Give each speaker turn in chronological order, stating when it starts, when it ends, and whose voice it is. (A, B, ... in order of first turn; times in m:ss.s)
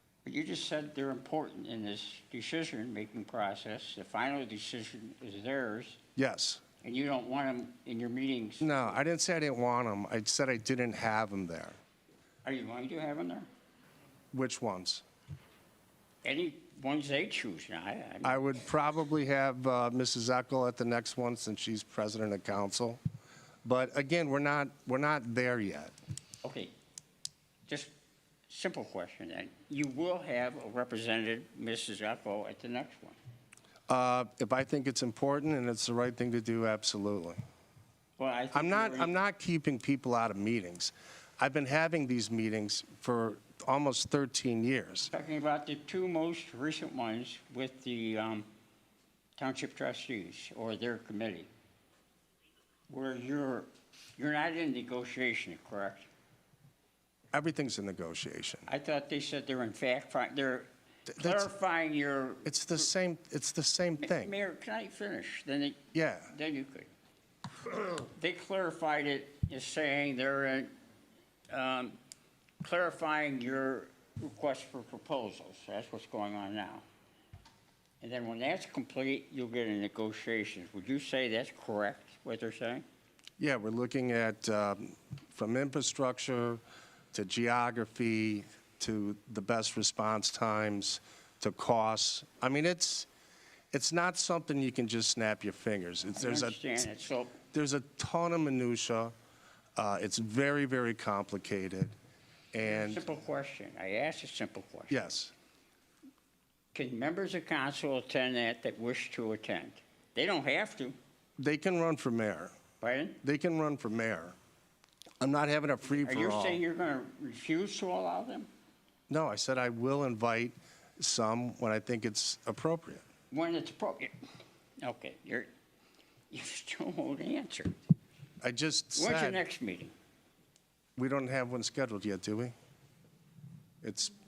0:00.2-0:06.0 A
0:06.2-0:06.6 B
0:06.8-0:09.0 A
0:08.6-0:11.8 B
0:12.4-0:13.5 A
0:14.3-0:15.0 B
0:16.2-0:18.4 A
0:18.2-0:23.0 B
0:23.6-0:25.9 B
0:26.4-0:26.7 A
0:27.7-0:27.9 A
0:28.5-0:33.2 A
0:33.9-0:37.4 B
0:38.2-0:39.1 A
0:38.5-0:45.1 B
0:45.1-0:48.5 A
0:49.4-0:51.5 A
0:52.9-0:56.1 A
0:57.3-0:58.7 B
0:58.7-1:02.9 A
1:01.1-1:01.5 B
1:02.4-1:04.3 B
1:04.0-1:05.8 A
1:05.9-1:06.3 B
1:06.3-1:06.9 A
1:08.0-1:10.7 A
1:11.5-1:12.0 A
1:12.6-1:16.8 A
1:18.0-1:22.8 A
1:23.4-1:26.6 B
1:27.1-1:33.1 B
1:33.7-1:36.9 B
1:36.2-1:37.4 A
1:37.5-1:39.1 B
1:39.8-1:41.9 B
1:42.5-1:43.0 B
1:42.6-1:44.9 A
1:44.9-1:45.3 B
1:46.7-1:51.0 A
1:51.4-1:52.5 B
1:52.8-1:53.2 A
1:53.2-1:54.3 B
1:55.2-1:56.6 B
1:56.0-1:58.5 A
1:59.1-2:03.0 B
2:03.3-2:04.2 A
2:04.8-2:05.5 A
2:06.3-2:07.8 A
2:08.4-2:09.4 B
2:09.0-2:09.9 A
2:11.0-2:12.5 B
2:13.8-2:14.1 B